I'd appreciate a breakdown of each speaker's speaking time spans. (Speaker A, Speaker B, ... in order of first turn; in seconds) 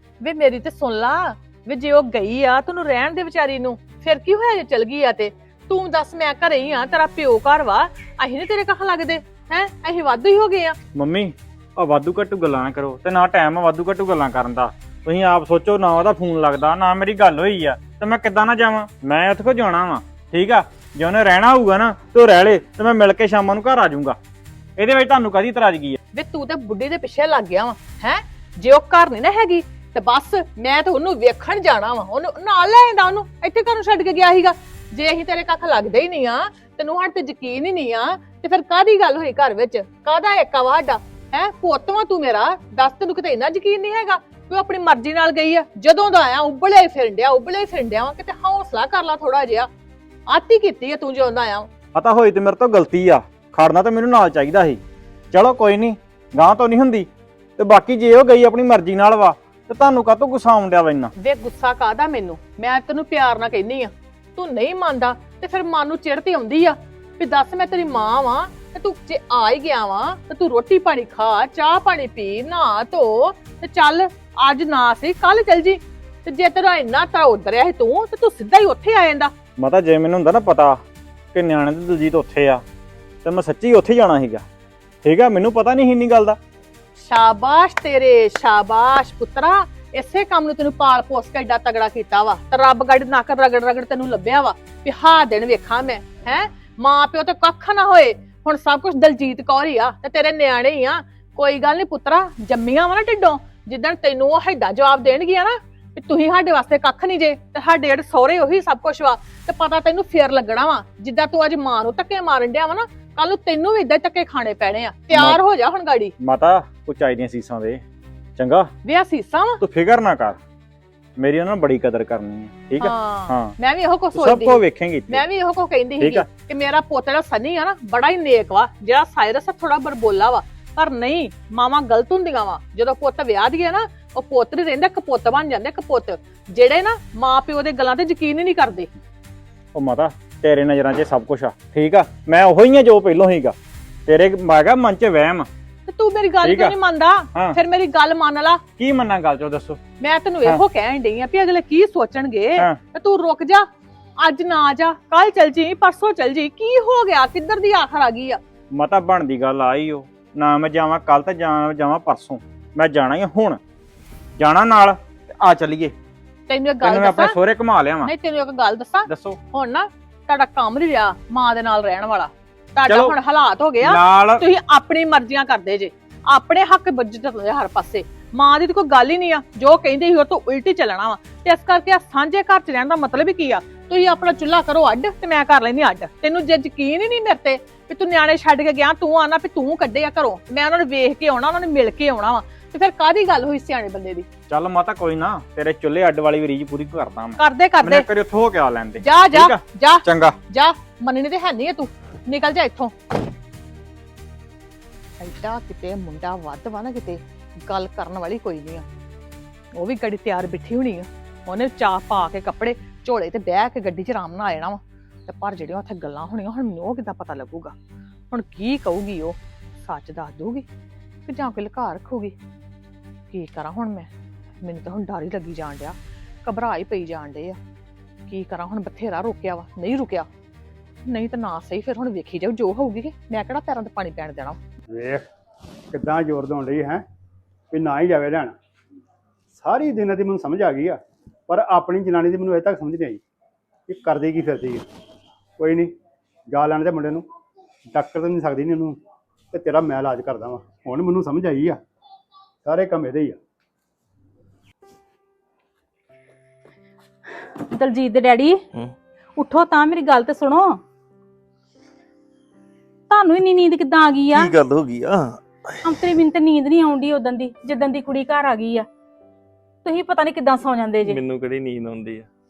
Speaker A: 0.2-10.8, 26.1-49.7, 50.3-51.7, 61.2-79.3, 87.0-116.1, 118.8-119.6, 122.8-138.9, 145.9-148.6, 150.0-153.7, 154.2-158.4, 166.5-167.4, 168.0-194.3, 197.4-198.1, 199.0-203.0, 205.2-208.9, 209.8-217.8, 218.3-220.7, 221.3-222.3, 223.3-224.1, 224.6-227.6, 228.3-230.3, 231.1-234.6
Speaker B: 10.9-24.2, 24.8-26.0, 52.0-54.8, 55.3-61.1, 79.6-80.8, 81.3-82.6, 83.2-84.5, 85.0-86.4, 115.1-115.4, 116.2-117.8, 118.4-118.7, 119.6-120.4, 121.2-123.5, 124.1-125.2, 126.0-126.3, 139.7-143.6, 144.1-145.5, 146.4-146.8, 148.8-149.8, 158.7-163.6, 164.4-165.9, 166.8-168.1, 169.1-169.4, 172.9-173.2, 173.8-174.5, 194.5-200.4
Speaker C: 234.9-235.2, 235.9-237.0, 237.7-238.5, 239.5-243.2, 243.9-244.8, 245.6-245.9, 246.5-247.2, 247.9-249.0, 249.5-251.8, 252.7-253.4
Speaker D: 257.4-258.6, 259.4-260.8, 263.1-264.5, 265.8-268.9, 269.8-271.2
Speaker E: 264.4-265.4, 271.1-272.3